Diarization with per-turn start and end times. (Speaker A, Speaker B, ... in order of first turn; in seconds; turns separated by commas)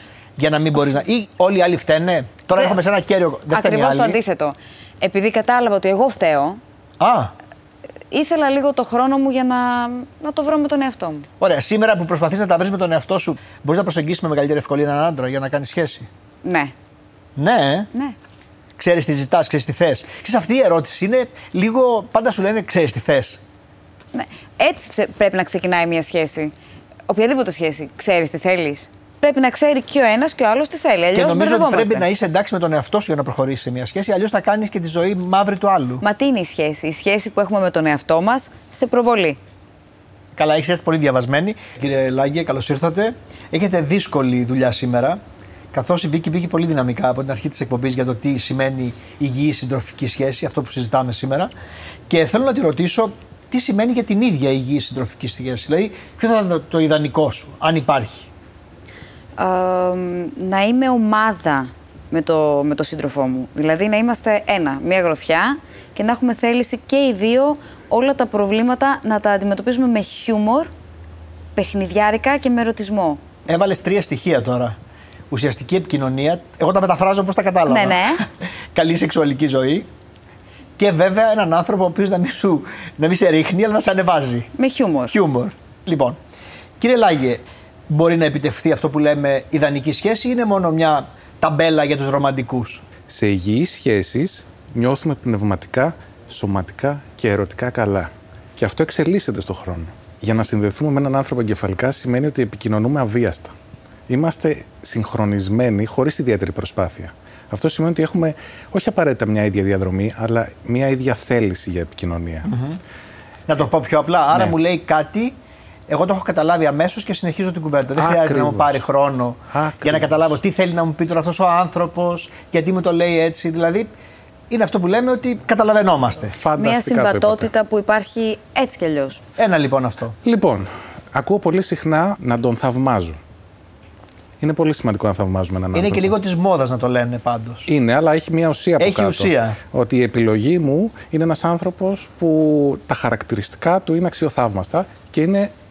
Speaker A: 0.4-4.2, Speaker B: 3.5-6.6, Speaker A: 7.0-7.3, Speaker B: 8.1-11.3, Speaker A: 11.4-16.1, Speaker B: 16.4-16.7, Speaker A: 17.4-17.9, Speaker A: 18.8-23.4, Speaker B: 24.1-26.5, Speaker B: 27.1-32.0, Speaker A: 31.1-36.0, Speaker B: 36.0-39.4, Speaker A: 40.3-45.2, Speaker A: 45.7-51.5, Speaker A: 52.1-58.3, Speaker B: 59.4-70.7, Speaker B: 71.5-73.2, Speaker A: 73.5-74.8, Speaker A: 75.3-79.9, Speaker B: 77.7-78.2, Speaker A: 80.8-84.5, Speaker B: 84.5-85.2, Speaker A: 85.1-86.2, Speaker A: 86.8-92.8, Speaker C: 93.1-103.5, Speaker C: 104.1-112.5, Speaker A: 112.4-112.8, Speaker A: 113.5-115.3, Speaker A: 115.9-123.9, Speaker C: 118.0-118.8, Speaker C: 119.5-120.3, Speaker A: 124.5-126.3, Speaker C: 126.3-127.5, Speaker B: 126.6-129.2, Speaker A: 129.4-130.2, Speaker C: 130.2-133.2, Speaker C: 134.4-136.1, Speaker A: 135.7-137.7, Speaker C: 137.7-145.5, Speaker A: 138.8-139.6